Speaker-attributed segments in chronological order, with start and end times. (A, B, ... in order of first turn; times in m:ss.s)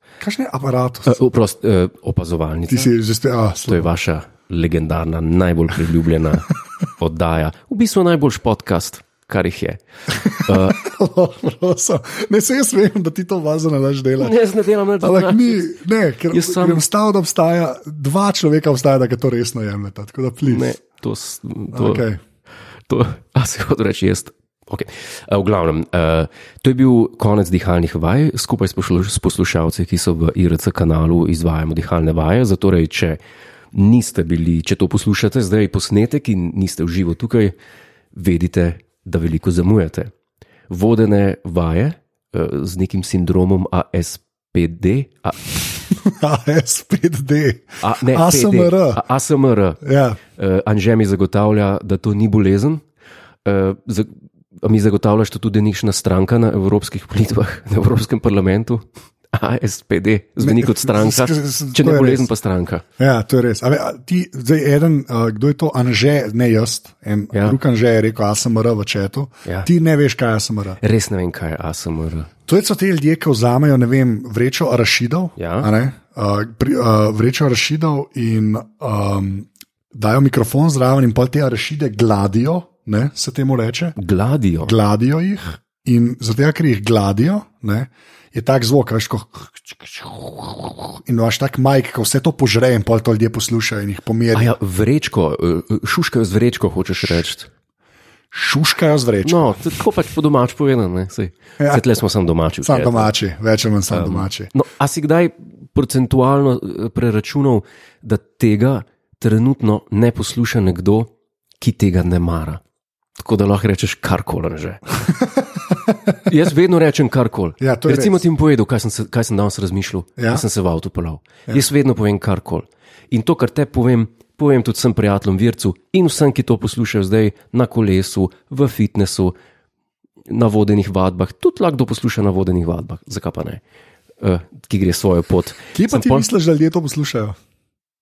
0:00.2-0:01.2 A
0:01.0-0:02.9 B
0:02.7-0:03.9 A
0:03.7-0:09.8 B
0:10.1-0:14.4 A
0:10.3-0:10.8 B
0:14.2-0:15.8 B
0:15.0-0:20.7 A
0:16.3-0:16.8 B
0:20.4-0:22.0 B
0:21.7-0:22.2 A
0:22.9-0:33.2 B
0:33.7-0:37.5 B
0:38.1-0:40.1 B
0:40.7-0:45.5 B
0:46.0-0:49.0 A
0:47.8-0:49.8 B
0:49.8-0:50.2 A
0:50.3-0:52.8 B
0:53.4-1:02.8 B
1:00.4-1:02.2 A
1:03.0-1:10.8 A
1:07.3-1:07.6 B
1:10.8-1:12.3 B
1:12.5-1:24.0 A
1:15.4-1:15.7 B
1:24.0-1:24.7 B
1:24.6-1:34.5 A
1:34.3-1:37.5 B
1:38.3-1:39.6 A
1:39.2-1:43.1 B
1:42.6-1:44.5 A
1:43.9-1:52.6 B
1:53.2-1:54.8 B
1:55.7-1:56.1 A
1:56.2-2:09.3 B
1:57.6-1:58.2 A
2:00.2-2:00.4 A
2:10.3-2:13.6 B
2:14.2-2:16.2 B
2:15.7-2:17.4 A